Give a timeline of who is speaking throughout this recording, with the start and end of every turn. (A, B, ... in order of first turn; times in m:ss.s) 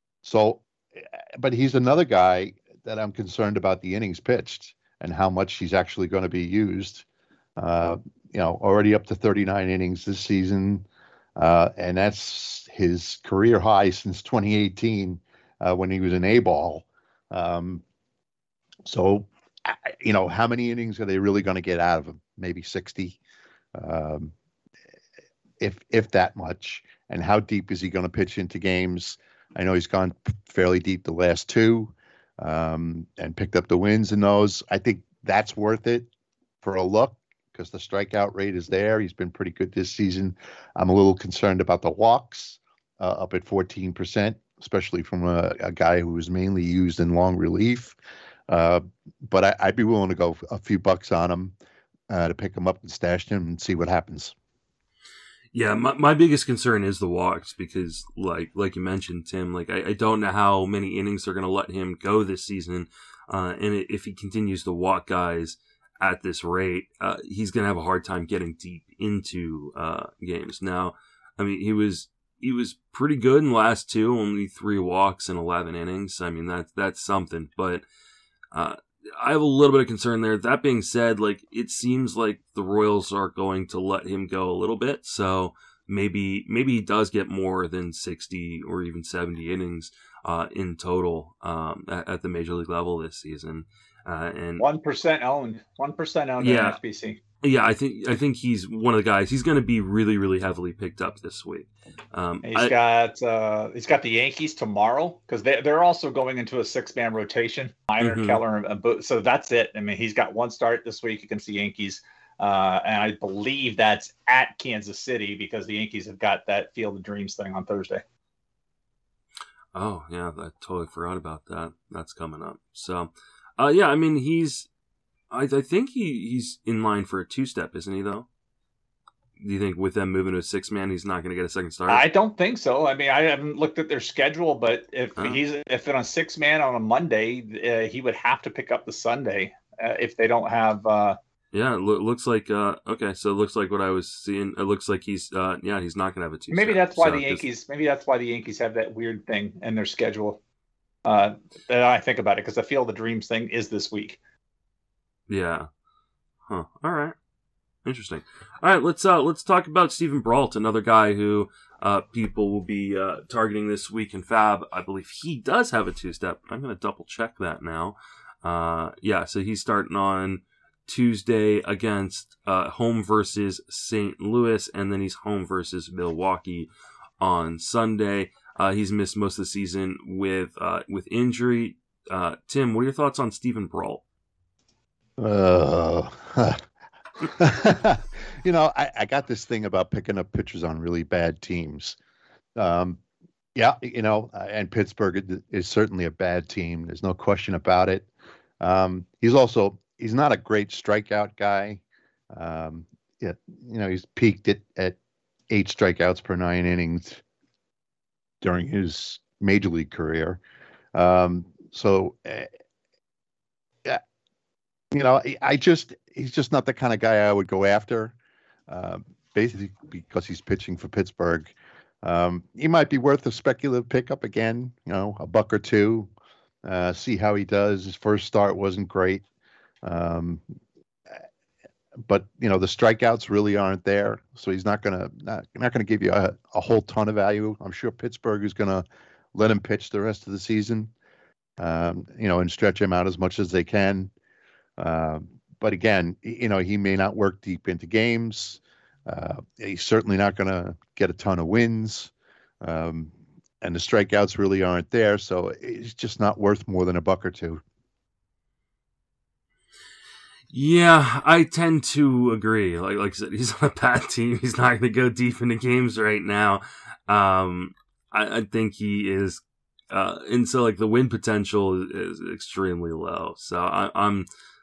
0:00.2-0:07.0 A
0:07.6-0:10.8 A
0:11.4-0:17.8 A
0:18.8-0:23.2 A
0:23.7-0:24.3 A
0:25.6-0:36.1 A
0:36.6-0:48.0 A
0:48.5-0:51.5 A
0:52.1-0:54.3 A
0:55.5-1:17.8 B
1:18.5-1:34.6 B
1:34.6-1:37.2 C
1:36.4-1:36.8 B
1:37.4-1:42.7 B
1:42.4-1:58.0 C
1:48.0-1:48.4 B
1:59.7-2:04.7 B
2:05.3-2:08.2 B
2:09.4-2:12.0 B
2:11.9-2:21.2 C
2:21.5-2:27.4 B
2:26.5-2:30.4 C
2:31.0-2:34.2 C
2:35.3-2:35.7 B
2:36.5-2:37.1 B
2:37.8-2:56.7 B
2:57.2-3:04.0 B
3:05.2-3:06.6 A
3:07.2-3:12.0 A
3:12.6-3:13.0 A
3:13.5-3:18.1 A
3:18.6-3:25.0 A
3:25.5-3:27.2 A
3:28.4-3:30.4 A
3:30.9-3:32.5 A
3:34.9-3:38.1 A
3:38.7-3:46.1 A
3:46.6-3:49.2 A
3:49.8-3:50.4 A
3:52.0-4:00.9 A
4:01.6-4:04.1 A
4:04.8-4:17.6 A
4:20.5-4:34.3 B